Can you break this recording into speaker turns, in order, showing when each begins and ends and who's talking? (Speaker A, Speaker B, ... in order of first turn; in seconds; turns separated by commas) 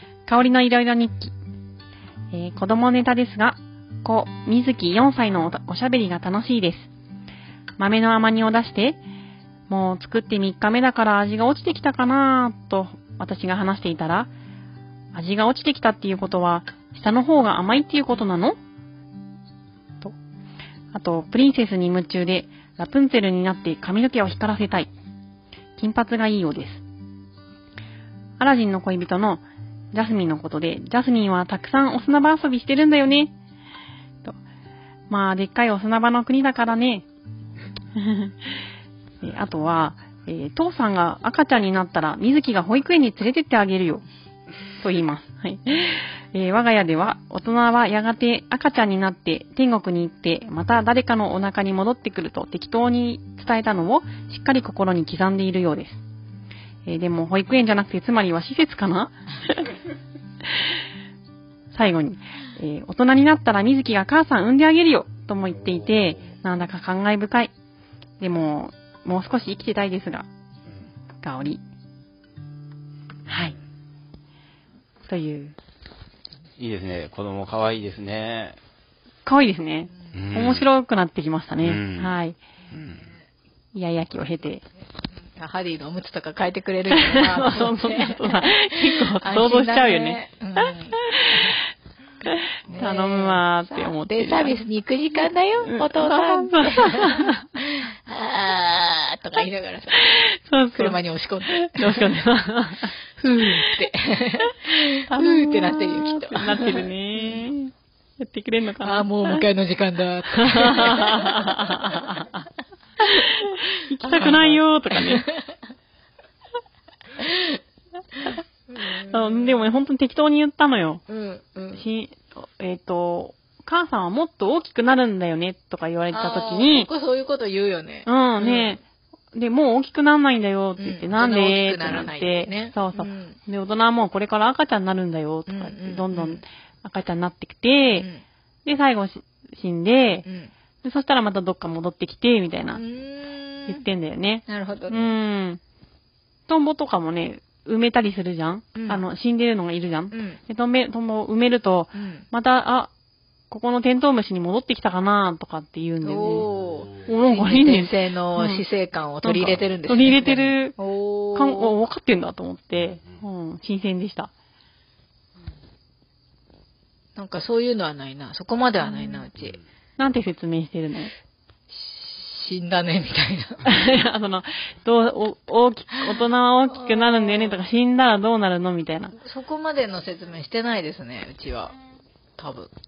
Speaker A: 0.3-1.3, Speaker A: 2.3-6.9, Speaker A: 7.8-9.0, Speaker A: 9.7-14.3, Speaker A: 15.1-18.6, Speaker A: 20.9-24.9, Speaker A: 25.8-26.8, Speaker A: 28.4-33.3, Speaker A: 35.1-37.1, Speaker A: 38.0-38.5, Speaker A: 39.2-44.0, Speaker A: 44.8-56.0, Speaker A: 56.9-59.7, Speaker A: 61.7-67.5, Speaker B: 65.6-66.3, Speaker A: 68.2-70.3, Speaker A: 71.2-71.6, Speaker A: 73.3-73.5, Speaker A: 75.1-75.6, Speaker B: 76.6-78.6, Speaker A: 79.3-82.4, Speaker B: 80.1-80.7, Speaker B: 81.6-82.2, Speaker B: 82.7-83.1, Speaker A: 83.7-84.6, Speaker C: 85.3-91.6, Speaker A: 86.9-91.6, Speaker A: 92.2-94.6, Speaker C: 92.2-100.2, Speaker A: 95.7-97.5, Speaker A: 100.0-103.7, Speaker C: 100.8-102.2, Speaker C: 103.2-107.5, Speaker A: 104.5-109.4, Speaker C: 108.8-111.9, Speaker A: 110.4-112.4, Speaker A: 113.2-115.3, Speaker C: 114.0-115.6, Speaker C: 117.2-117.6, Speaker C: 118.7-119.6, Speaker A: 118.8-121.0, Speaker C: 121.1-121.8, Speaker A: 121.7-126.9, Speaker C: 126.1-128.8, Speaker A: 128.1-128.8, Speaker A: 129.3-138.1, Speaker C: 130.8-133.4, Speaker C: 135.5-136.4, Speaker C: 137.9-138.2, Speaker A: 138.7-140.3, Speaker C: 140.2-140.5, Speaker A: 140.8-142.8, Speaker C: 142.7-143.9, Speaker A: 143.7-145.6, Speaker C: 144.5-145.1, Speaker A: 146.5-152.9, Speaker C: 148.8-149.0, Speaker C: 150.1-150.4, Speaker C: 151.9-152.3, Speaker A: 153.5-156.5, Speaker C: 156.0-161.7, Speaker B: 156.4-157.2, Speaker A: 157.1-158.6, Speaker A: 159.2-160.8, Speaker A: 161.3-164.3, Speaker B: 162.7-163.2, Speaker C: 167.2-169.6, Speaker A: 168.8-169.2, Speaker A: 170.0-171.1, Speaker C: 171.7-173.7, Speaker A: 173.7-179.1, Speaker C: 176.0-177.6, Speaker C: 179.2-181.8, Speaker C: 182.4-182.7